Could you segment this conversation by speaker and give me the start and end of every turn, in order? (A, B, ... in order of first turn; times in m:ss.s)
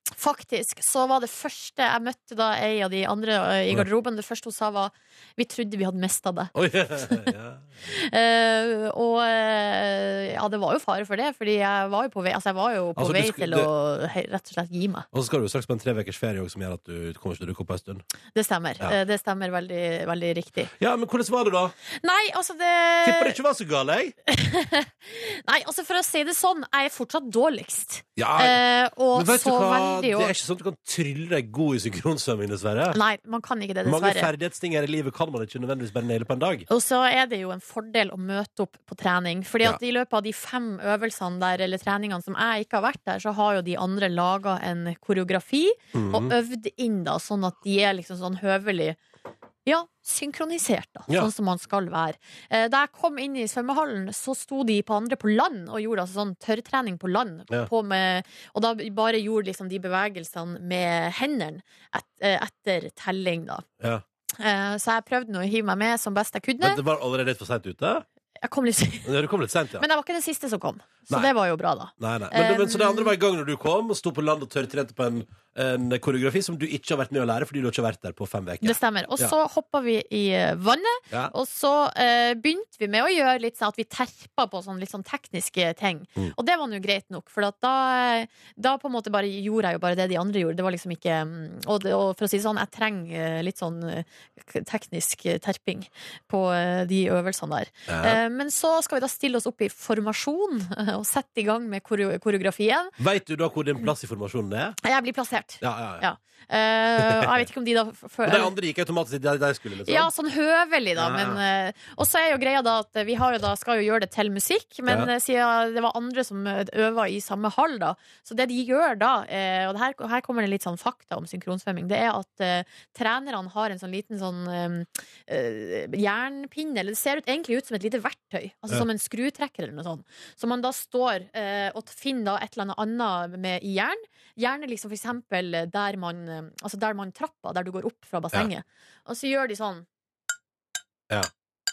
0:00.2-0:07.3 A
0:06.5-0:07.6 B
0:07.9-0:15.1 A
0:13.0-0:13.7 B
0:15.1-0:18.0 B
0:18.3-0:20.7 A
0:20.8-0:21.7 B
0:22.0-0:23.4 A
0:23.0-0:24.1 B
0:24.3-0:30.3 A
0:28.2-0:33.0 B
0:32.9-0:34.3 A
0:33.8-0:36.6 B
0:36.7-0:49.0 A
0:45.9-0:46.3 B
0:49.6-1:03.6 A
1:04.4-1:06.8 A
1:06.6-1:08.0 B
1:08.4-1:09.1 A
1:09.0-1:09.8 B
1:09.8-1:13.1 A
1:12.0-1:19.3 B
1:18.6-1:42.9 A
1:37.9-1:38.2 B
1:43.0-1:44.8 B
1:44.8-1:48.5 A
1:45.6-1:46.0 B
1:47.0-1:47.4 B
1:48.2-1:50.1 B
1:49.9-2:19.8 A
1:51.0-1:51.4 B